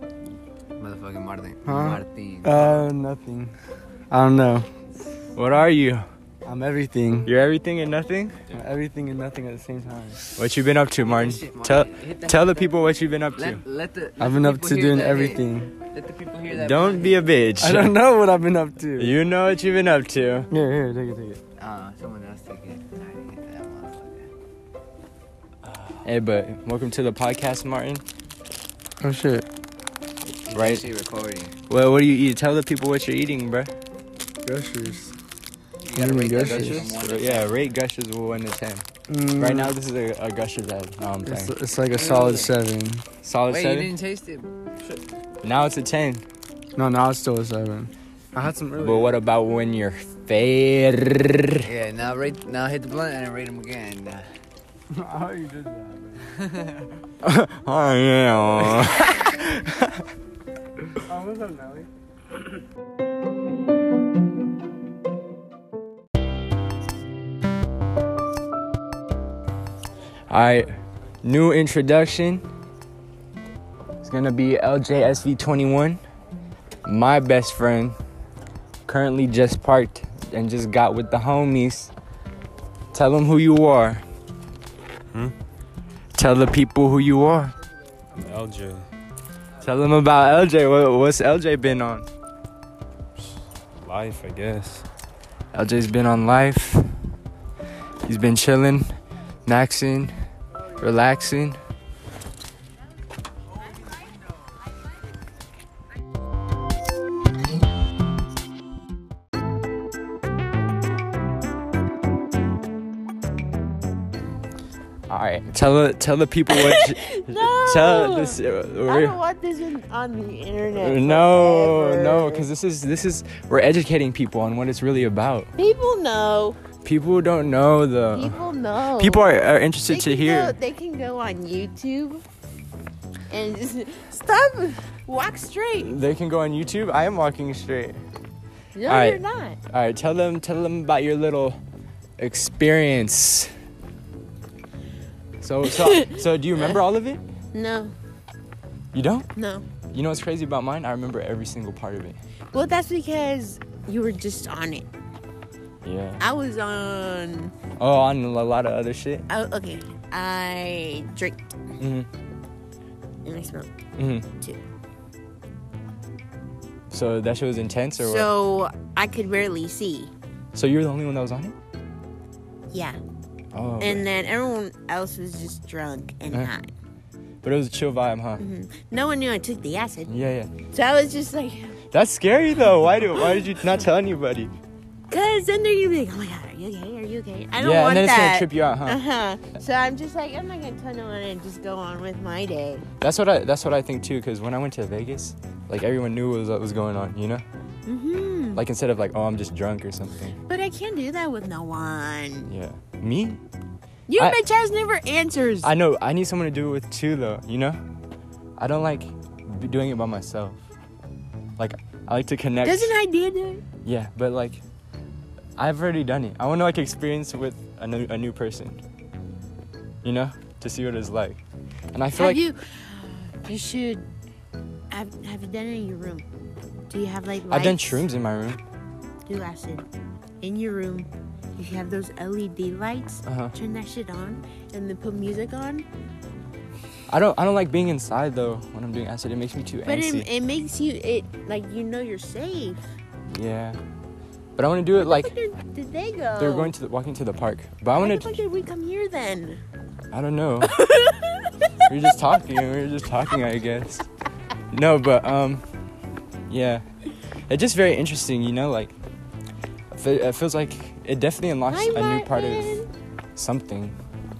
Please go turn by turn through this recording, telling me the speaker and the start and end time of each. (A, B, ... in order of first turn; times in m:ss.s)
0:00.8-0:02.7 A
0:01.6-0:03.5 B
0:04.1-0:04.7 B
0:05.3-0:06.0 C
0:06.4-0:07.3 B
0:07.2-0:08.4 C
0:08.5-0:10.2 B
0:10.4-0:13.6 C
0:11.0-0:12.8 A
0:13.4-0:17.2 A
0:14.2-0:15.7 B
0:16.5-0:18.0 C
0:17.6-0:19.1 B
0:19.0-0:20.5 C
0:20.5-0:21.4 B
0:21.6-0:24.3 A
0:26.0-0:28.0 C
0:29.0-0:29.4 B
0:30.5-0:31.5 A
0:30.5-0:30.8 C
0:31.7-0:33.7 C
0:34.4-0:35.1 B
0:35.8-0:37.6 A
0:35.9-0:36.9 B
0:36.3-0:38.8 C
0:39.1-0:39.7 B
0:39.4-0:41.5 C
0:41.2-0:43.0 B
0:41.9-0:42.5 A
0:43.2-0:43.9 C
0:43.5-0:44.5 A
0:45.4-0:46.2 C
0:46.8-0:49.2 B
0:48.8-0:51.7 C
0:51.6-0:54.3 A
0:54.9-0:56.3 B
0:56.4-0:56.7 A
0:57.2-1:00.0 C
1:01.0-1:01.9 B
1:10.3-1:12.4 C
1:14.0-1:16.0 C
1:16.8-1:18.0 C
1:18.8-1:21.9 C
1:22.9-1:24.0 C
1:26.2-1:27.5 C
1:28.1-1:28.9 D
1:29.6-1:32.1 C
1:33.2-1:34.8 D
1:35.5-1:36.9 C
1:38.0-1:38.9 C
1:39.4-1:40.1 C
1:40.8-1:41.6 C
1:55.1-1:59.2 C
1:56.5-2:02.4 E
2:00.8-2:05.5 C
2:05.6-2:06.6 E
2:06.8-2:08.4 C
2:08.1-2:09.3 E
2:09.0-2:10.6 C
2:09.9-2:12.2 E
2:13.3-2:16.0 E
2:15.8-2:18.0 C
2:18.7-2:19.6 E
2:18.9-2:21.6 C
2:22.2-2:23.5 C
2:25.4-2:27.2 C
2:25.7-2:26.2 E
2:27.5-2:27.9 E
2:28.9-2:29.3 C
2:29.4-2:29.6 E
2:29.9-2:32.2 C
2:32.5-2:34.9 E
2:35.8-2:36.2 C
2:36.2-2:37.5 E
2:37.8-2:39.2 C
2:39.3-2:41.5 E
2:41.8-2:42.1 C
2:43.2-2:43.7 E
2:44.0-2:44.2 C
2:46.9-2:48.3 C
2:48.0-2:50.1 E
2:50.5-2:51.5 C
2:52.7-2:53.0 E
2:53.5-2:54.1 C
2:53.8-2:56.7 E
2:57.4-2:58.4 C
2:58.4-3:00.1 E
3:00.1-3:00.5 C
3:00.7-3:01.8 E
3:01.9-3:04.5 C
3:03.2-3:03.4 E
3:05.1-3:12.8 E
3:07.6-3:09.0 C
3:13.0-3:17.4 C
3:17.8-3:18.6 E
3:18.5-3:20.4 C
3:20.5-3:22.5 E
3:22.5-3:23.4 C
3:24.1-3:25.7 E
3:25.6-3:27.8 C
3:28.6-3:30.6 C
3:31.6-3:32.9 C
3:32.6-3:33.6 E
3:33.8-3:34.6 C
3:35.6-3:38.8 C
3:40.0-3:41.4 C
3:41.9-3:42.4 C
3:42.1-3:44.0 E
3:44.9-3:46.2 E
3:46.9-3:48.0 E
3:47.5-3:48.6 C
3:49.2-3:49.8 E
3:50.4-3:55.8 E
3:53.2-3:53.5 C
3:57.1-4:00.2 C
3:59.8-4:02.9 E
4:03.3-4:03.8 C
4:04.6-4:05.3 C
4:04.9-4:06.7 E
4:06.4-4:08.4 C
4:08.0-4:09.6 E
4:10.1-4:10.9 C
4:10.7-4:11.9 E
4:11.9-4:14.0 C
4:14.7-4:15.6 C
4:16.5-4:16.8 C
4:17.5-4:18.9 C
4:19.9-4:22.8 C
4:21.7-4:22.9 E
4:23.4-4:24.0 C